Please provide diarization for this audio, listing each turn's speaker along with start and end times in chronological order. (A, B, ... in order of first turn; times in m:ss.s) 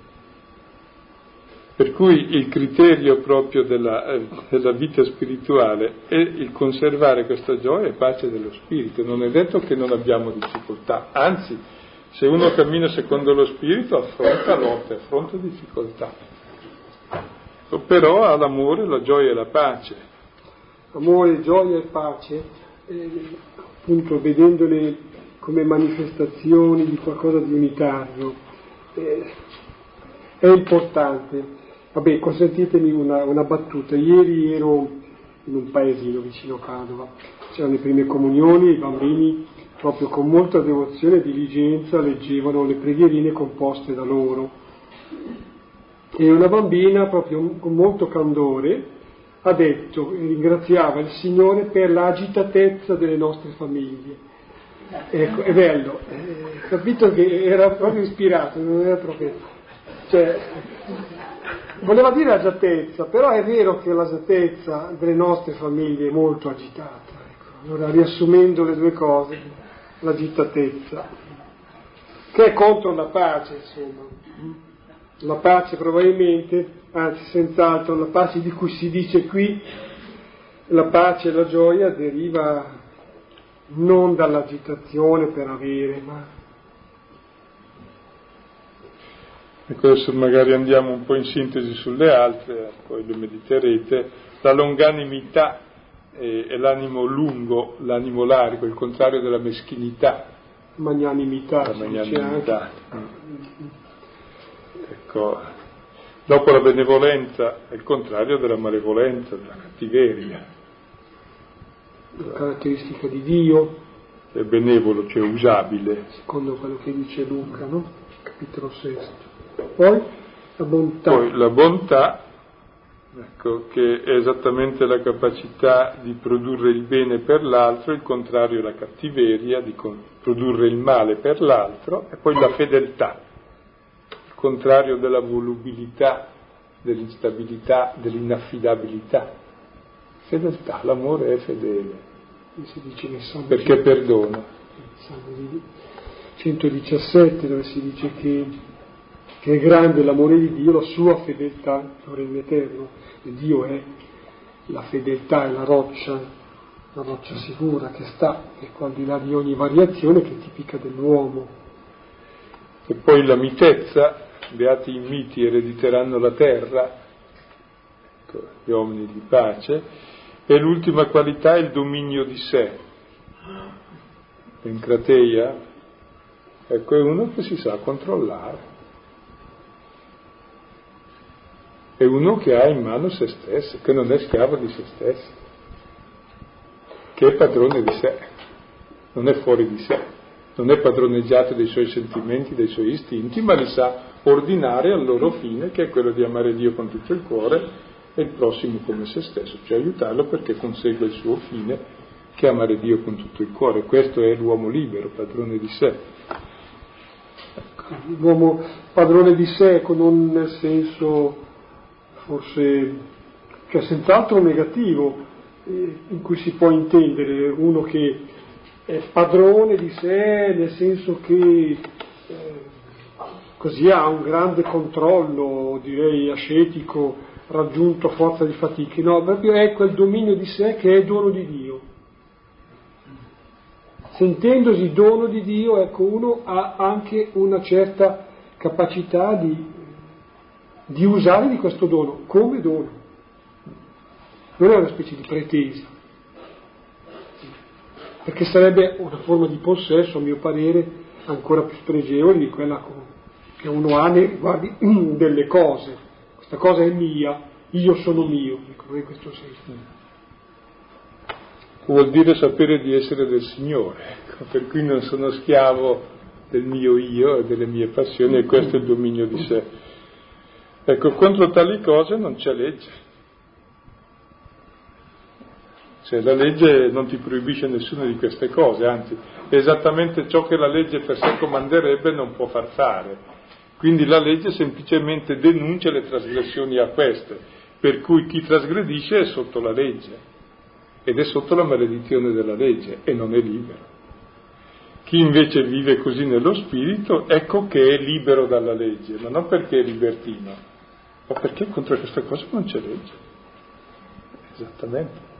0:01.8-0:16.1 A
0:17.7-0:20.0 A
0:20.9-0:28.4 B
0:28.9-0:29.4 B
0:30.4-0:44.5 B
0:46.1-0:48.9 B
0:49.4-0:54.2 B
0:55.1-0:59.4 B
1:00.1-1:01.0 B
1:01.8-1:11.1 B
1:12.3-1:14.5 B
1:15.2-1:19.7 B
1:20.7-1:22.8 B
1:23.7-1:26.3 B
1:29.7-1:35.6 A
1:36.1-1:40.3 A
1:40.8-1:42.6 B
1:41.6-1:43.1 A
1:44.8-1:45.5 A
1:46.2-1:50.4 A
1:52.1-1:53.8 B
1:54.3-1:56.1 A
1:56.2-2:00.1 B
2:00.6-2:01.3 B
2:01.1-2:02.2 A
2:03.1-2:13.2 A
2:14.3-2:16.3 A
2:16.8-2:19.3 A
2:20.2-2:22.0 A
2:22.6-2:23.8 B
2:23.5-2:24.5 A
2:25.0-2:25.6 B
2:26.4-2:28.6 B
2:29.4-2:33.9 B
2:34.7-2:36.3 B
2:36.9-2:41.6 B
2:42.9-2:46.9 A
2:48.3-2:49.8 A
2:50.5-2:52.8 A
2:54.6-2:55.6 A
2:56.7-2:58.6 A
3:02.0-3:05.4 A
3:07.1-3:08.2 A
3:09.1-3:21.8 A
3:22.4-3:26.0 A
3:27.8-3:31.4 B
3:32.2-3:33.0 B
3:33.7-3:38.3 B
3:38.9-3:42.7 B
3:43.6-3:51.8 B
3:54.1-3:59.9 B
4:00.9-4:03.0 B
4:04.6-4:05.9 B
4:08.2-4:19.7 B
4:21.8-4:29.7 A
4:30.8-4:33.0 A
4:36.0-4:43.2 A
4:43.8-4:50.2 A
4:51.0-4:53.9 A
4:55.0-5:00.6 A
5:01.3-5:03.2 A
5:04.5-5:05.2 A